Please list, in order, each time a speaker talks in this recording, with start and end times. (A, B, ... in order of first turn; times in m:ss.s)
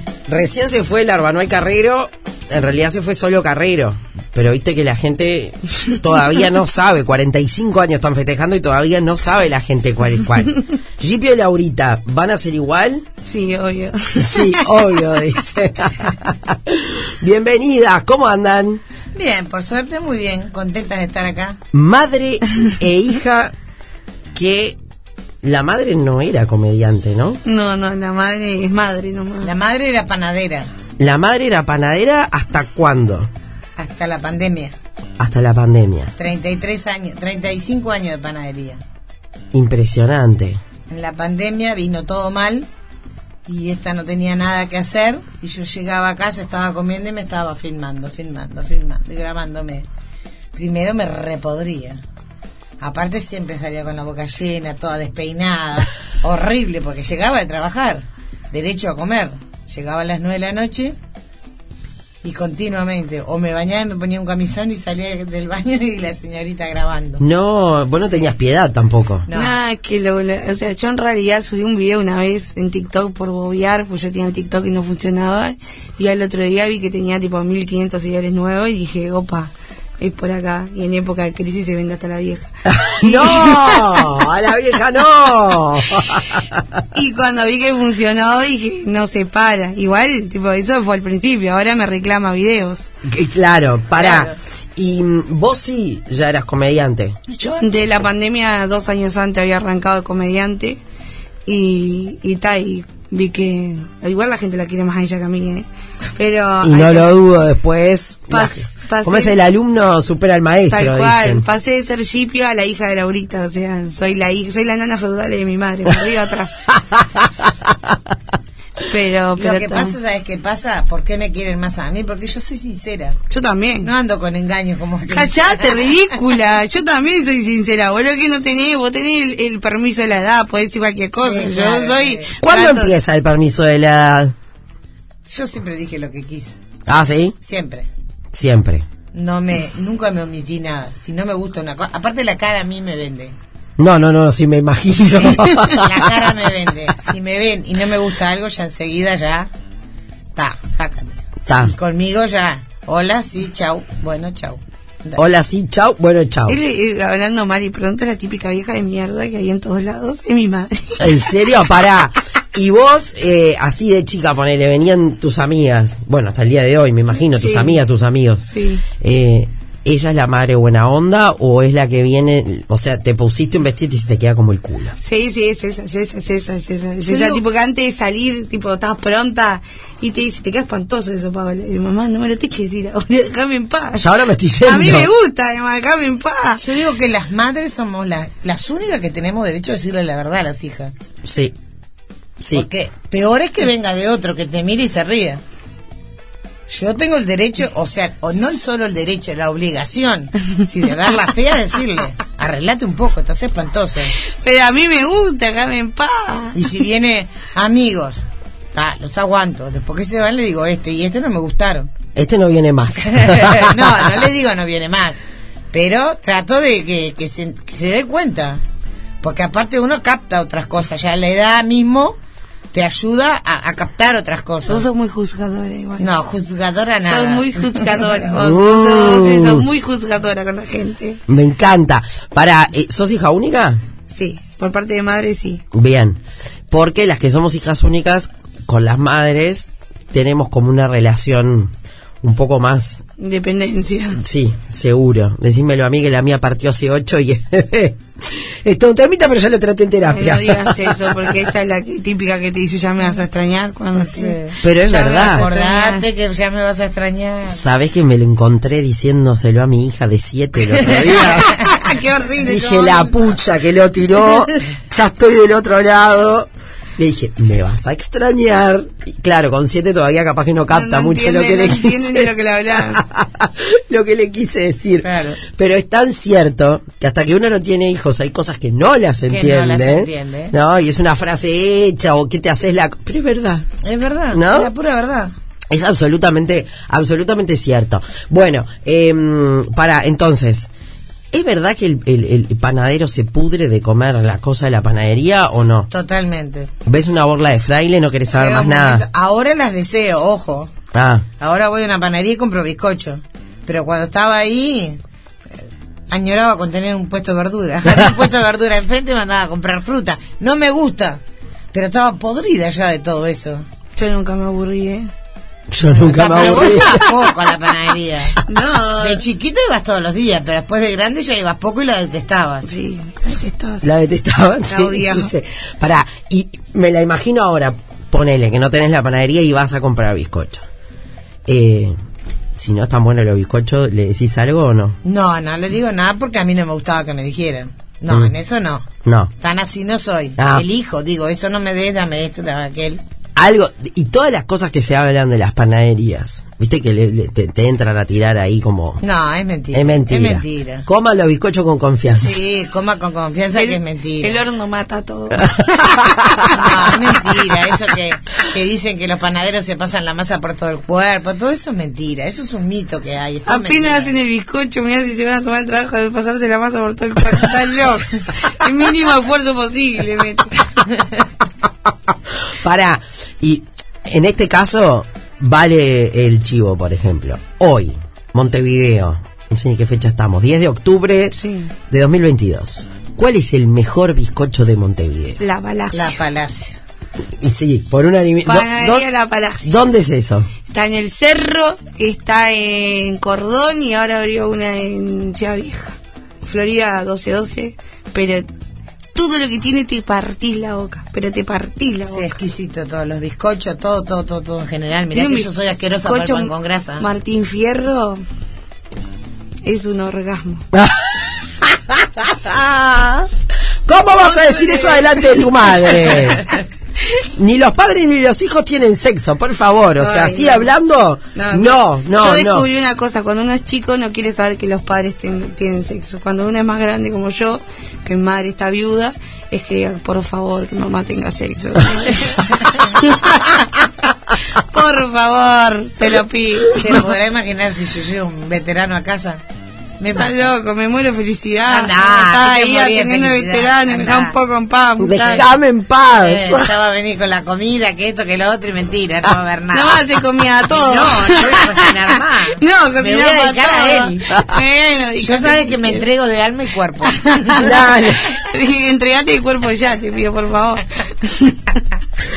0:00.3-0:13.1 A
0:13.2-0:14.9 B
0:14.2-0:18.8 A
0:19.1-0:21.6 C
0:21.7-0:23.5 A
0:24.4-0:24.8 A
0:25.4-0:27.4 A
0:27.4-0:29.5 B
0:29.4-0:30.7 C
0:31.0-0:33.3 A
0:33.8-0:34.7 C
0:35.2-0:36.1 A
0:36.2-0:38.8 C
0:39.5-0:40.6 A
0:40.9-0:42.7 C
0:43.5-0:49.8 C
0:50.6-0:52.0 C
0:52.8-1:01.0 C
1:02.2-1:07.2 C
1:07.2-1:09.3 A
1:08.0-1:08.3 C
1:09.3-1:09.6 C
1:09.3-1:24.1 B
1:22.7-1:26.8 A
1:26.9-1:32.9 B
1:33.0-1:37.2 A
1:34.0-1:34.3 C
1:37.3-1:37.7 C
1:37.6-1:40.8 B
1:41.5-1:45.7 B
1:46.2-1:47.1 B
1:46.6-1:51.4 A
1:48.3-1:49.4 B
1:50.7-1:56.6 B
1:56.9-1:58.0 A
1:58.9-2:00.0 B
1:59.4-2:03.2 C
2:03.3-2:03.9 B
2:03.8-2:06.2 C
2:05.1-2:13.0 B
2:11.2-2:12.3 C
2:12.4-2:14.3 A
2:15.3-2:16.6 C
2:16.9-2:17.4 A
2:17.4-2:17.9 C
2:18.3-2:18.8 A
2:19.1-2:23.4 C
2:23.8-2:26.3 A
2:25.2-2:29.5 C
2:30.4-2:35.2 C
2:31.5-2:31.7 A
2:35.2-2:36.6 A
2:36.5-2:41.4 B
2:41.0-2:48.5 A
2:47.3-2:47.8 B
2:48.5-2:48.8 B
2:49.0-2:55.0 A
2:55.0-3:04.1 B
2:57.1-2:57.4 C
3:04.0-3:05.1 A
3:04.6-3:06.6 B
3:06.6-3:10.9 C
3:11.2-3:11.5 A
3:12.4-3:12.7 A
3:12.5-3:15.4 C
3:16.7-3:24.2 C
3:24.2-3:26.6 B
3:26.6-3:31.9 C
3:32.2-3:34.2 A
3:33.0-3:35.2 C
3:35.7-3:38.6 C
3:39.2-3:42.2 C
3:42.7-3:44.9 C
3:44.7-3:46.1 B
3:46.0-3:48.2 C
3:47.0-3:51.2 B
3:48.4-3:49.7 A
3:51.3-3:53.8 A
3:54.1-3:55.6 B
3:55.7-3:56.2 A
3:56.7-4:03.0 A
4:03.2-4:04.2 B
4:04.2-4:11.4 A
4:10.1-4:14.4 B
4:14.0-4:17.6 C
4:14.6-4:15.4 A
4:15.1-4:16.0 B
4:17.5-4:21.6 A
4:20.7-4:21.8 C
4:21.3-4:23.2 B
4:22.4-4:32.3 A
4:30.7-4:33.0 B
4:32.9-4:43.6 A
4:35.0-4:35.4 C
4:39.3-4:40.5 C
4:43.8-4:45.3 C
4:44.3-4:44.7 A
4:45.7-4:50.7 A
4:51.3-4:55.9 A
4:55.9-4:56.7 C
4:56.9-4:59.0 A
4:58.3-5:00.7 C
5:00.9-5:01.2 A
5:01.4-5:05.0 C
5:06.1-5:11.2 C
5:11.7-5:13.6 C
5:14.0-5:15.1 B
5:15.7-5:17.1 A
5:15.9-5:18.4 C
5:16.4-5:17.1 B
5:18.5-5:19.2 B
5:19.0-5:22.7 C
5:22.7-5:23.9 B
5:23.8-5:30.6 A
5:24.7-5:25.3 B
5:31.5-5:32.0 A
5:32.6-5:35.0 A
5:35.0-5:43.0 C
5:39.0-5:39.3 A
5:40.4-5:40.7 A
5:43.4-5:49.0 A
5:49.0-5:50.9 C
5:49.7-5:52.4 A
5:52.1-5:54.4 C
5:53.5-5:56.7 B
5:55.4-5:56.6 A
5:56.5-6:04.2 C
6:03.5-6:10.6 B
6:12.1-6:21.4 A
6:21.4-6:21.7 B
6:21.9-6:25.4 A
6:25.4-6:26.2 B
6:25.9-6:26.8 C
6:27.4-6:29.0 A
6:28.5-6:29.8 B
6:29.6-6:30.5 A
6:30.7-6:38.5 B
6:39.1-6:42.3 B
6:42.1-6:47.0 C
6:45.1-6:45.5 B
6:46.0-6:48.2 B
6:49.6-6:50.7 B
6:50.7-6:53.3 A
6:53.9-6:56.5 A
6:54.1-6:56.2 B
6:57.2-7:02.7 A
7:00.0-7:00.7 B
7:01.4-7:13.9 B
7:14.5-7:17.0 B
7:16.8-7:19.4 C
7:20.0-7:20.5 C
7:20.1-7:25.4 B
7:21.7-7:24.4 C
7:25.0-7:26.7 A
7:26.2-7:30.2 C
7:29.7-7:36.0 B
7:30.7-7:34.4 C
7:35.2-7:37.9 C
7:37.1-7:37.7 B
7:37.6-7:38.3 A
7:38.2-7:41.8 B